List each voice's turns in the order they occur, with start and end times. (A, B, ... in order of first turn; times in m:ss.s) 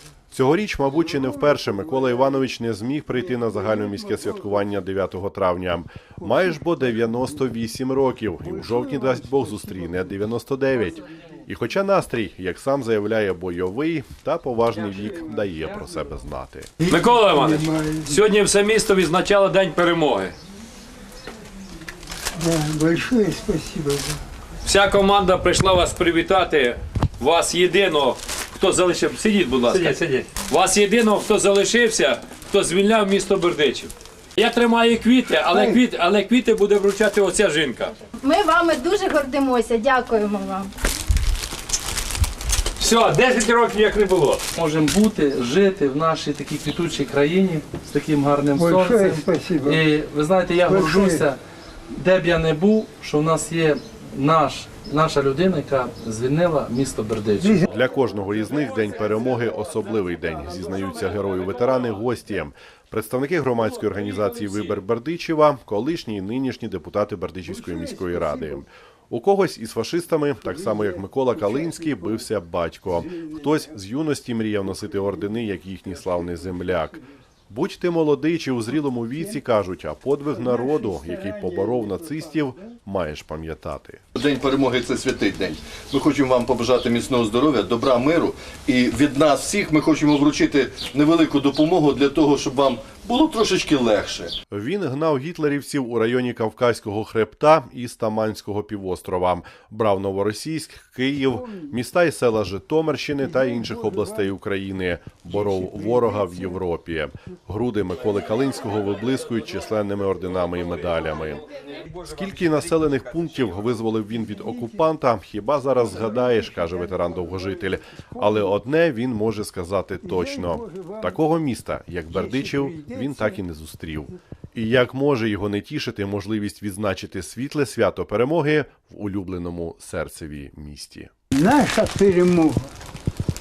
0:00.3-0:16.7 A
0:01.4-0:02.0 B
0:03.1-0:04.7 B
0:06.2-0:07.5 B
0:08.4-0:10.2 B
0:16.8-0:18.2 B
0:16.9-0:20.3 C
0:22.4-0:24.2 B
0:24.6-0:37.9 C
0:38.2-0:40.7 D
0:42.8-0:44.4 C
0:44.6-0:51.4 E
0:48.5-0:49.8 B
0:50.6-0:51.3 B
0:52.0-0:57.5 E
0:57.4-0:57.7 B
0:57.6-1:17.0 A
1:07.4-1:08.6 B
1:10.4-1:12.3 B
1:12.9-1:13.8 B
1:14.6-1:15.6 B
1:16.1-1:17.0 B
1:17.5-1:24.0 A
1:20.3-1:22.7 B
1:24.1-1:34.3 F
1:34.5-1:51.4 A
1:41.3-1:41.8 B
1:43.2-1:44.3 B
1:45.3-1:46.6 B
1:52.0-2:11.1 A
1:54.2-1:54.8 B
1:55.7-1:58.6 B
2:00.0-2:01.2 B
2:02.1-2:03.4 B
2:11.3-2:12.7 B